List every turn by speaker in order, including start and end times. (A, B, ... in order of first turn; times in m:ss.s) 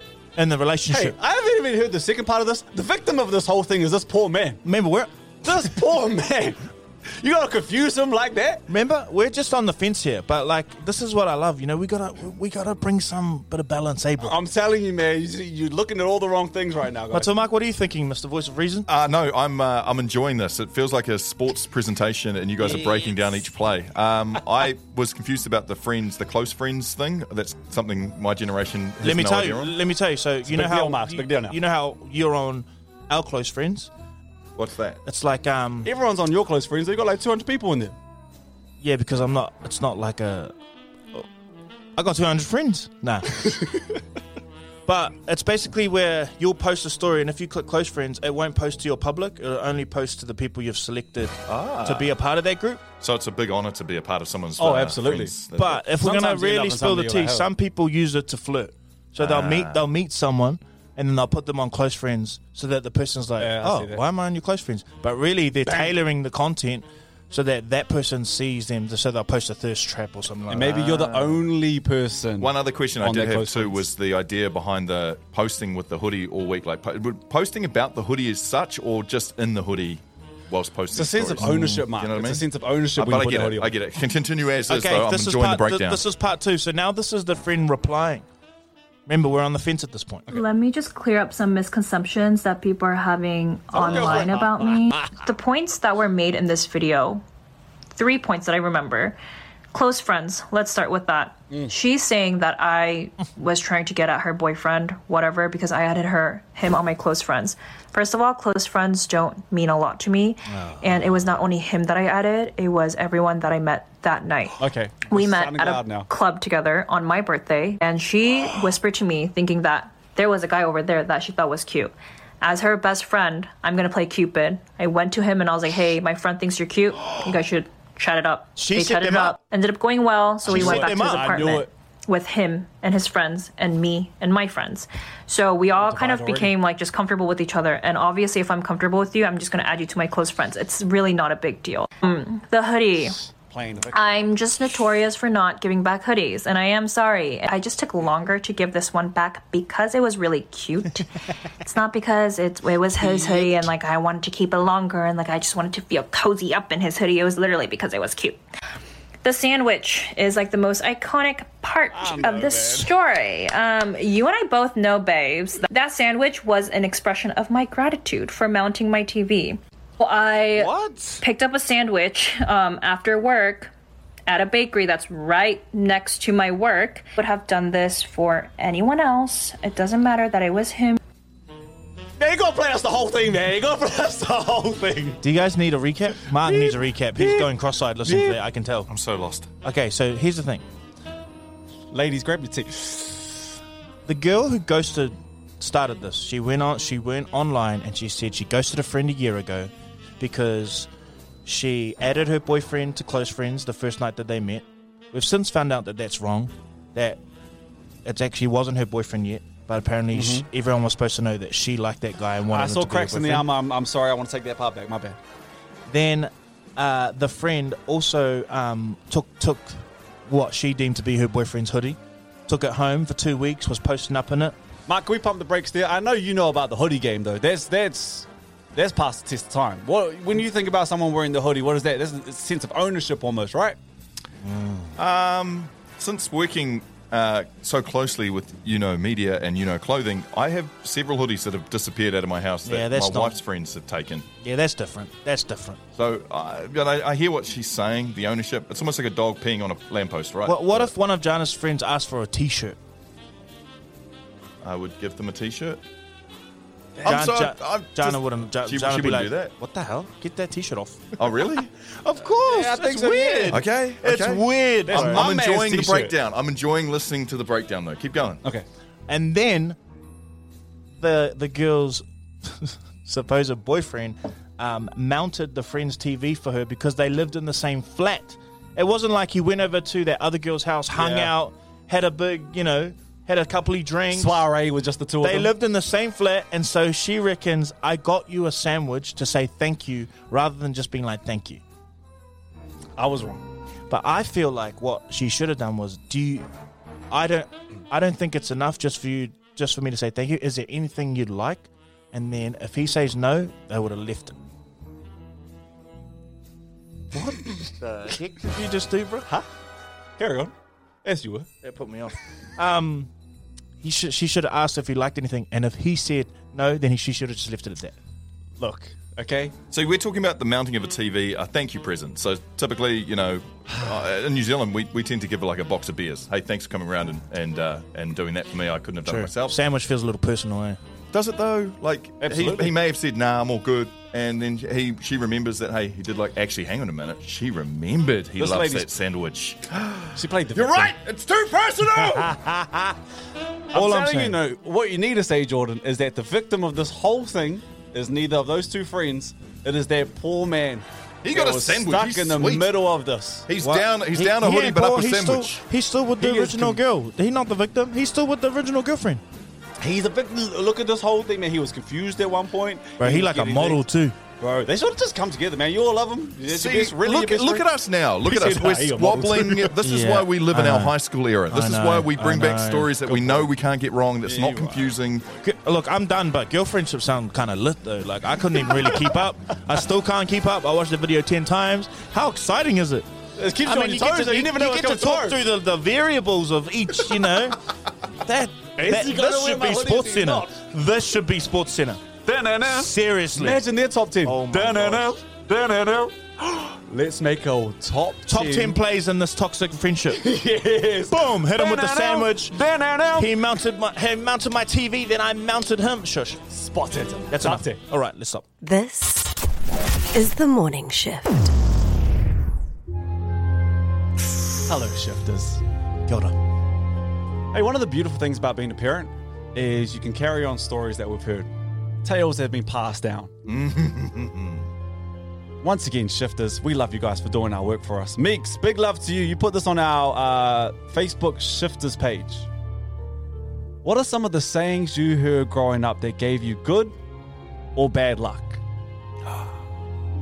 0:00.4-0:01.2 A
0:00.9-0:04.6 B
0:04.6-0:05.7 A
0:05.4-0:08.6 B
0:08.7-0:14.4 A
0:14.2-0:17.3 B
0:17.1-0:18.9 A
0:18.9-0:29.7 C
0:22.7-0:23.1 B
0:29.0-0:33.9 A
0:30.4-0:31.6 B
0:34.6-0:35.0 C
0:35.0-0:35.9 A
0:35.8-0:38.0 B
0:38.8-0:40.5 A
0:42.0-0:43.6 A
0:43.4-0:43.8 B
0:44.8-0:52.8 A
0:51.5-0:52.1 C
0:53.0-0:55.8 C
0:54.6-0:55.4 B
0:55.5-1:11.2 A
0:56.0-0:57.5 B
0:59.2-0:59.8 C
1:03.4-1:04.0 B
1:05.6-1:05.9 B
1:10.5-1:13.9 B
1:11.0-1:11.4 C
1:12.4-1:26.0 C
1:20.9-1:23.7 B
1:21.4-1:21.8 A
1:24.7-1:28.2 A
1:29.0-1:30.3 A
1:30.3-1:37.2 D
1:33.7-1:35.0 B
1:37.9-1:39.2 D
1:39.7-2:23.2 D
1:50.5-1:51.2 A
1:54.6-1:56.1 B
2:08.6-2:09.4 A
2:10.4-2:11.7 B
2:10.5-2:11.6 A
2:15.8-2:16.5 B
2:23.5-2:24.3 B
2:23.9-2:31.1 D
2:31.6-2:38.4 D
2:33.0-2:33.5 B
2:39.2-2:53.7 D
2:41.9-2:42.9 B
2:50.5-2:51.2 A
2:54.3-3:01.0 D
3:02.2-3:05.2 B
3:05.2-3:08.9 A
3:06.4-3:07.5 B
3:08.0-3:08.4 B
3:08.9-3:09.5 C
3:09.6-3:10.6 A
3:11.9-3:13.4 B
3:14.0-3:20.9 A
3:21.4-3:27.2 A
3:28.0-3:33.5 A
3:30.1-3:30.5 B
3:32.5-3:35.2 B
3:35.9-3:44.6 A
3:44.9-3:53.8 B
3:54.4-3:55.0 A
3:55.0-4:04.2 C
4:02.6-4:03.4 A
4:04.4-4:05.8 A
4:06.0-4:10.9 C
4:10.4-4:12.8 A
4:14.6-4:15.8 C
4:17.0-4:19.5 C
4:17.0-4:21.3 A
4:21.2-4:21.7 C
4:21.9-4:25.3 A
4:22.4-4:23.6 B
4:23.5-4:28.4 C
4:24.9-4:26.1 B
4:29.1-4:29.8 A
4:31.0-4:44.5 A
4:40.9-4:41.3 B
4:44.1-4:45.5 B
4:45.2-4:51.6 A
4:53.0-4:53.4 B
4:53.9-4:56.5 A
4:57.1-5:04.4 A
5:07.1-5:09.3 A
5:10.2-5:10.5 B
5:11.0-5:11.5 B
5:11.6-5:13.1 A
5:13.8-5:17.9 A
5:18.6-5:19.5 B
5:19.7-5:29.5 C
5:29.0-5:30.8 A
5:31.1-5:42.4 C
5:32.2-5:32.7 B
5:38.4-5:38.9 B
5:40.1-5:41.0 B
5:43.7-5:44.4 A
5:43.7-5:53.4 B
5:51.2-5:52.7 C
5:53.5-5:55.6 C
5:53.6-5:59.2 A
5:56.2-5:56.8 B
5:59.8-6:03.8 B
6:03.0-6:04.2 A
6:04.4-6:07.6 B
6:06.5-6:15.2 C
6:08.2-6:09.7 B
6:09.8-6:11.0 A
6:11.5-6:12.9 A
6:13.0-6:13.5 B
6:14.2-6:14.9 B
6:15.4-6:23.1 A
6:18.7-6:19.1 B
6:23.4-6:25.4 B
6:23.6-6:32.0 A
6:28.8-6:30.6 B
6:32.2-6:38.8 B
6:32.6-6:33.6 A
6:34.2-6:35.2 A
6:38.3-6:40.2 A
6:40.1-6:43.3 B
6:41.1-6:42.6 A
6:43.1-6:46.4 A
6:46.5-6:47.8 B
6:47.3-6:48.4 A
6:48.6-6:49.3 E
6:50.1-6:51.5 E
6:54.6-6:55.6 B
6:56.1-6:56.4 A
6:57.5-7:01.5 B
7:02.0-7:03.3 B
7:03.4-7:04.7 C
7:05.6-7:12.5 B
7:13.8-7:17.0 B
7:17.8-7:18.6 B